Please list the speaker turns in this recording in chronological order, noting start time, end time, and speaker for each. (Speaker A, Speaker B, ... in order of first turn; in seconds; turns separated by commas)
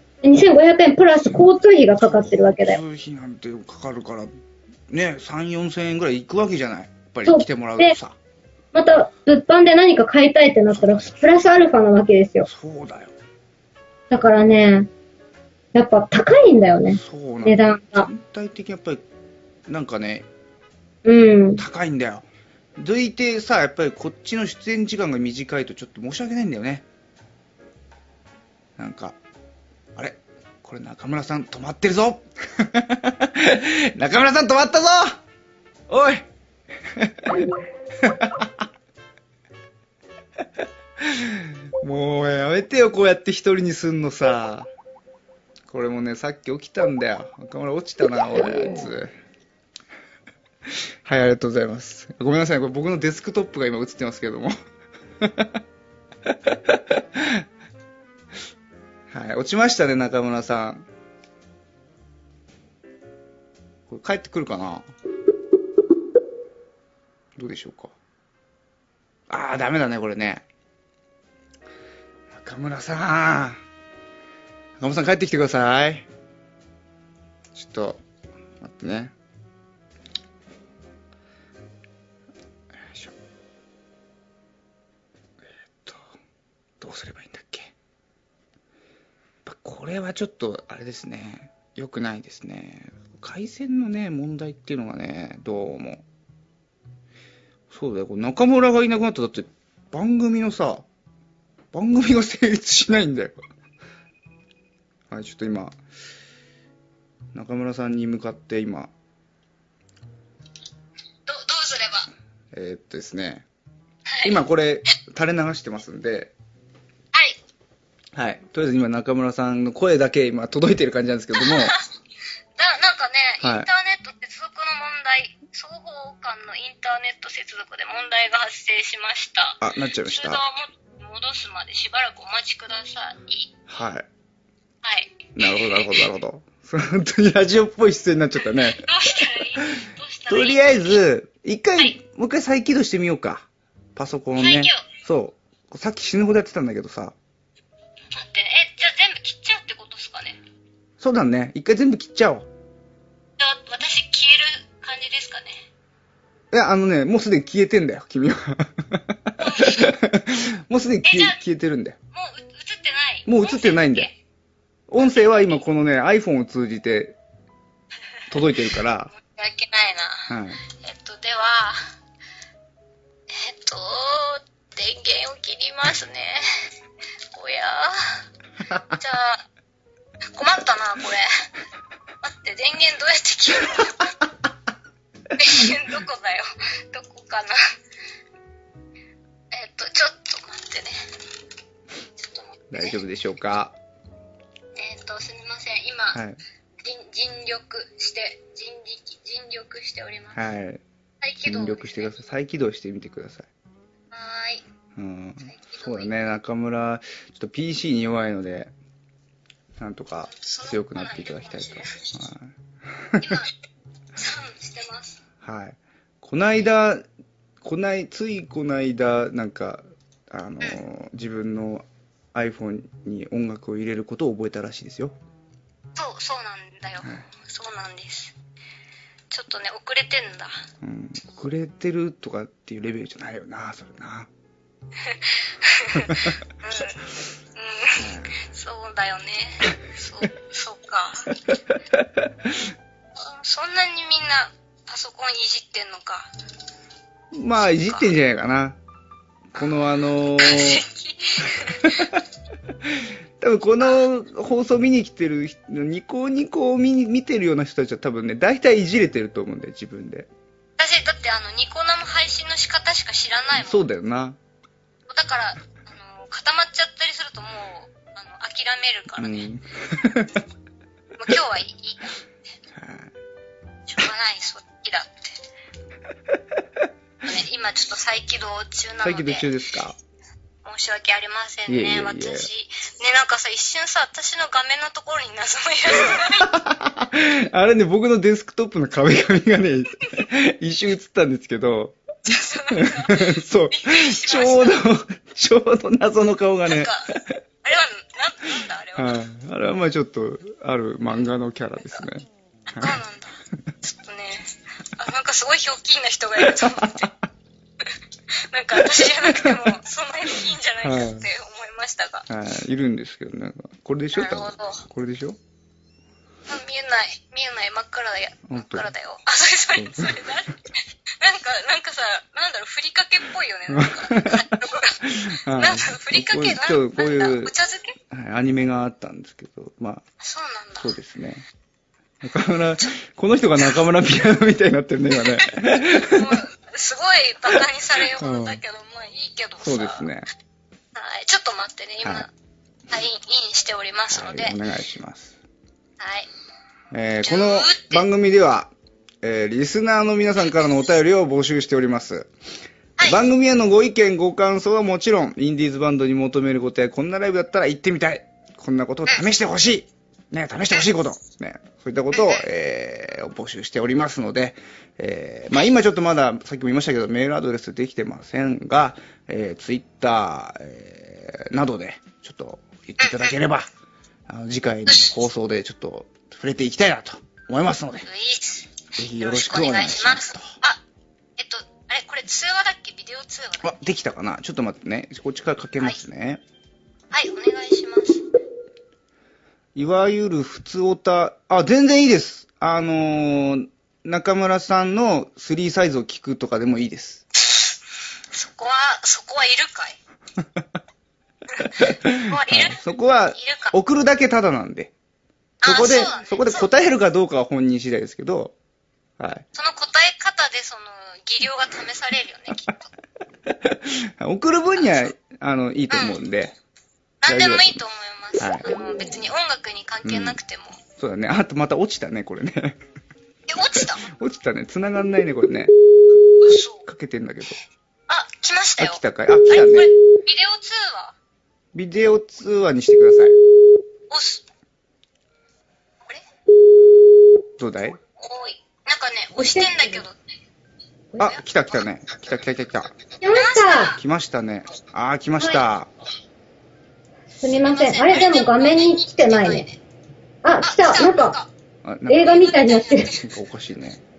Speaker A: 0.2-2.8, Speaker B: 2.0-4.3, Speaker B: 4.9-8.2, Speaker A: 7.2-8.0, Speaker A: 8.7-12.5, Speaker B: 10.7-11.3, Speaker B: 12.4-13.1, Speaker A: 14.1-14.9, Speaker A: 15.7-18.1, Speaker B: 16.9-19.0, Speaker B: 19.7-20.3, Speaker A: 21.1-21.6, Speaker B: 21.6-26.9, Speaker B: 28.8-29.2, Speaker B: 30.0-35.2, Speaker B: 35.9-36.3, Speaker B: 37.0-37.4, Speaker B: 38.0-38.6, Speaker B: 41.0-44.7, Speaker B: 45.7-49.1, Speaker B: 51.0-54.5, Speaker B: 55.2-55.6, Speaker B: 56.3-57.5, Speaker B: 59.1-60.9, Speaker B: 63.9-64.9, Speaker B: 67.4-67.9, Speaker B: 69.3-70.5, Speaker B: 72.3-73.6, Speaker B: 74.8-76.1, Speaker B: 77.5-78.0, Speaker B: 78.6-79.1, Speaker B: 82.9-83.1, Speaker B: 85.8-86.1, Speaker B: 86.8-87.7, Speaker B: 89.5-96.0, Speaker B: 97.7-100.9, Speaker B: 101.7-103.4, Speaker B: 105.1-105.8, Speaker B: 107.3-108.9, Speaker C: 111.3-112.1, Speaker B: 112.5-113.5, Speaker C: 114.1-114.4, Speaker B: 114.2-116.3, Speaker B: 118.2-121.8, Speaker C: 121.4-121.8, Speaker C: 122.6-133.5, Speaker B: 123.4-123.7, Speaker B: 129.6-130.4, Speaker B: 133.7-134.1, Speaker C: 134.8-136.0, Speaker B: 135.4-138.9, Speaker C: 138.6-141.0, Speaker B: 139.6-147.2, Speaker C: 144.4-144.8, Speaker C: 148.1-150.4, Speaker B: 151.0-152.5, Speaker C: 153.4-155.7, Speaker B: 156.5-162.0, Speaker C: 159.4-159.9, Speaker C: 161.1-161.4, Speaker C: 162.1-164.1, Speaker B: 163.3-164.1, Speaker B: 164.9-167.2, Speaker C: 165.0-165.6, Speaker B: 168.3-169.1, Speaker C: 169.1-171.8, Speaker B: 170.3-170.6, Speaker C: 173.3-176.4, Speaker C: 177.3-178.2, Speaker C: 178.8-179.4, Speaker C: 180.3-181.3, Speaker C: 182.2-184.1, Speaker C: 185.4-187.6, Speaker C: 189.5-191.0, Speaker C: 192.2-193.0, Speaker B: 192.7-193.8, Speaker C: 194.8-196.2, Speaker B: 196.1-196.4, Speaker C: 196.8-200.4, Speaker B: 200.3-200.8, Speaker C: 201.2-202.1, Speaker B: 201.4-203.5, Speaker C: 204.1-204.6, Speaker B: 205.0-208.7, Speaker C: 205.5-206.1, Speaker B: 209.8-213.4, Speaker C: 210.3-212.1, Speaker C: 213.2-213.5, Speaker C: 214.2-215.2, Speaker B: 215.4-217.0, Speaker B: 217.6-225.2, Speaker C: 226.0-228.3, Speaker C: 229.3-230.6, Speaker B: 230.8-234.3, Speaker C: 235.0-237.0, Speaker B: 236.0-236.3, Speaker C: 237.6-241.3, Speaker B: 238.0-238.4, Speaker B: 241.9-242.6, Speaker C: 243.2-246.3, Speaker B: 247.3-248.8, Speaker C: 247.8-248.1, Speaker B: 249.5-250.8, Speaker C: 250.4-252.1, Speaker B: 251.4-252.2, Speaker B: 252.9-260.3, Speaker C: 260.8-263.8, Speaker B: 263.6-264.4, Speaker C: 265.1-269.5, Speaker B: 269.2-270.4, Speaker C: 271.2-272.2, Speaker B: 272.7-273.1, Speaker C: 273.9-275.4, Speaker C: 277.2-279.5, Speaker B: 279.0-280.0, Speaker C: 280.6-286.5, Speaker B: 281.7-282.5, Speaker B: 286.0-292.0, Speaker C: 292.3-294.8, Speaker B: 292.7-297.4, Speaker C: 296.7-297.1, Speaker C: 297.6-299.2, Speaker B: 299.0-302.2, Speaker C: 302.7-307.1, Speaker B: 306.4-307.1, Speaker C: 308.5-312.3, Speaker B: 308.8-309.7, Speaker B: 310.8-311.3, Speaker B: 312.3-315.4, Speaker C: 314.1-314.8, Speaker C: 316.5-320.6, Speaker B: 318.5-318.9, Speaker B: 319.8-320.3, Speaker C: 321.2-327.9, Speaker B: 323.7-327.5, Speaker B: 328.1-330.0, Speaker C: 330.2-330.9, Speaker B: 330.8-331.4, Speaker B: 332.2-336.4, Speaker C: 335.2-340.1, Speaker B: 337.5-338.6, Speaker B: 339.6-340.3, Speaker C: 340.9-342.3, Speaker B: 342.0-342.3, Speaker C: 342.9-344.6, Speaker B: 344.1-345.4, Speaker C: 346.0-346.3, Speaker B: 346.9-348.7, Speaker C: 347.2-348.0, Speaker B: 349.2-352.3, Speaker B: 353.0-373.7, Speaker C: 362.1-362.4, Speaker C: 373.0-373.4, Speaker B: 374.3-378.1, Speaker C: 374.9-375.1, Speaker C: 378.1-380.8, Speaker B: 379.0-380.5, Speaker C: 381.4-383.7, Speaker B: 383.6-386.4, Speaker C: 387.1-388.2, Speaker B: 389.8-397.2, Speaker C: 398.3-400.0, Speaker C: 401.6-402.8, Speaker B: 401.8-404.9, Speaker C: 403.4-403.7, Speaker C: 405.6-406.7, Speaker B: 405.6-408.5, Speaker B: 409.2-409.4, Speaker C: 409.6-412.9, Speaker B: 413.5-416.6, Speaker C: 414.8-415.1, Speaker C: 415.9-416.2, Speaker C: 417.2-420.8, Speaker B: 417.3-417.8, Speaker B: 418.4-419.1, Speaker B: 420.0-420.4, Speaker B: 421.0-422.8, Speaker C: 423.5-424.1, Speaker B: 424.0-425.7, Speaker B: 426.3-427.6, Speaker C: 426.4-426.8, Speaker C: 428.1-431.1, Speaker B: 428.8-429.9, Speaker B: 431.7-433.4, Speaker C: 434.1-434.4, Speaker B: 437.6-438.0, Speaker C: 438.2-440.1, Speaker A: 439.4-440.0, Speaker B: 441.2-442.9, Speaker A: 443.2-444.0, Speaker C: 443.3-444.0, Speaker B: 443.9-445.9, Speaker A: 447.4-449.7, Speaker C: 447.4-449.8, Speaker A: 450.4-451.4, Speaker C: 450.6-451.5, Speaker B: 451.8-452.5, Speaker A: 452.1-453.1, Speaker C: 452.2-453.3, Speaker B: 453.1-454.0